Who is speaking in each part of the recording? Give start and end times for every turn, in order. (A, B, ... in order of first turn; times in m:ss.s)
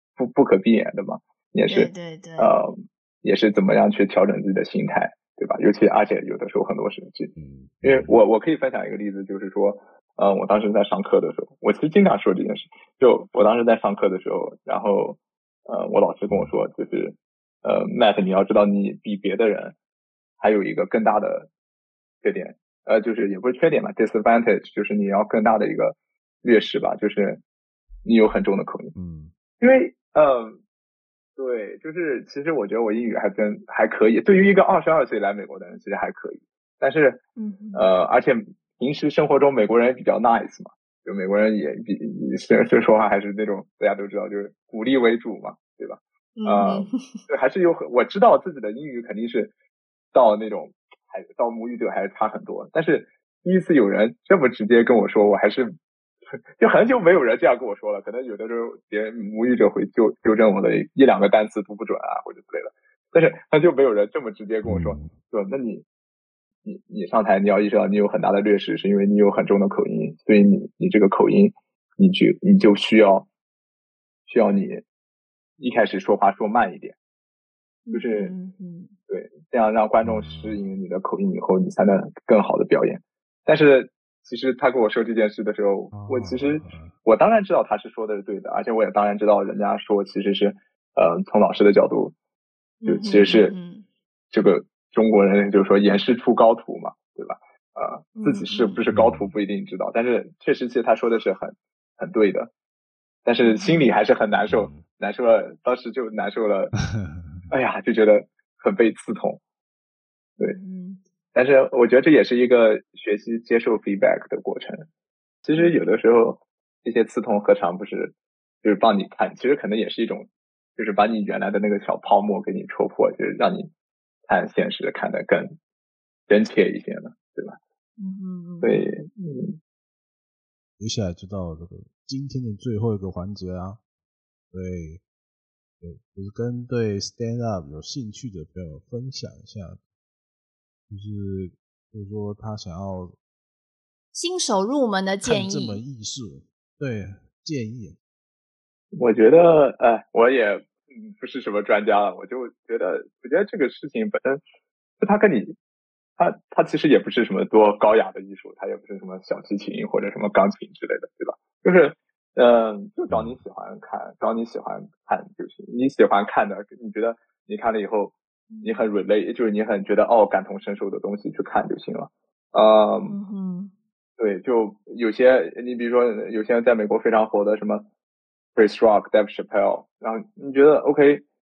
0:00.2-0:19.8 A
0:01.7-0:02.6 B
0:07.4-0:08.1 C
0:20.4-0:21.5 A
0:22.2-0:27.4 A
0:28.0-0:28.9 A
0:29.0-0:29.3 C
0:29.6-0:30.6 A
0:31.4-0:37.2 A
0:37.4-0:37.9 B
0:37.7-0:49.5 A
0:46.4-0:47.2 B
0:50.1-0:55.7 A
0:56.6-1:05.8 A
1:04.6-1:05.1 C
1:06.6-1:13.3 A
1:14.3-1:14.8 A
1:15.6-1:17.0 A
1:17.9-1:18.9 B
1:17.9-1:18.3 A
1:19.1-1:32.1 A
1:20.0-1:20.6 C
1:25.9-1:26.9 C
1:32.8-1:33.9 B
1:32.8-1:33.5 A
1:34.3-1:42.5 A
1:38.2-1:38.8 B
1:38.9-1:39.3 C
1:43.2-1:46.8 A
1:43.4-1:43.9 B
1:44.5-1:44.8 C
1:46.8-1:47.5 C
1:47.5-1:49.4 A
1:50.4-1:51.0 B
1:51.3-1:54.9 A
1:55.4-2:03.7 A
1:55.6-1:55.9 B
2:04.3-2:05.6 A
2:06.3-2:07.6 A
2:08.0-2:09.0 B
2:08.6-2:09.6 A
2:10.8-2:13.8 C
2:14.5-2:15.0 C
2:15.8-2:19.8 C
2:20.9-2:23.2 C
2:24.1-2:25.8 B
2:25.2-2:28.0 C
2:28.9-2:34.4 A
2:35.0-2:35.6 A
2:36.2-2:53.2 A
2:43.1-2:43.4 C
2:48.5-2:48.8 B
2:53.1-2:53.7 B
2:54.2-2:57.8 A
2:58.6-3:01.2 A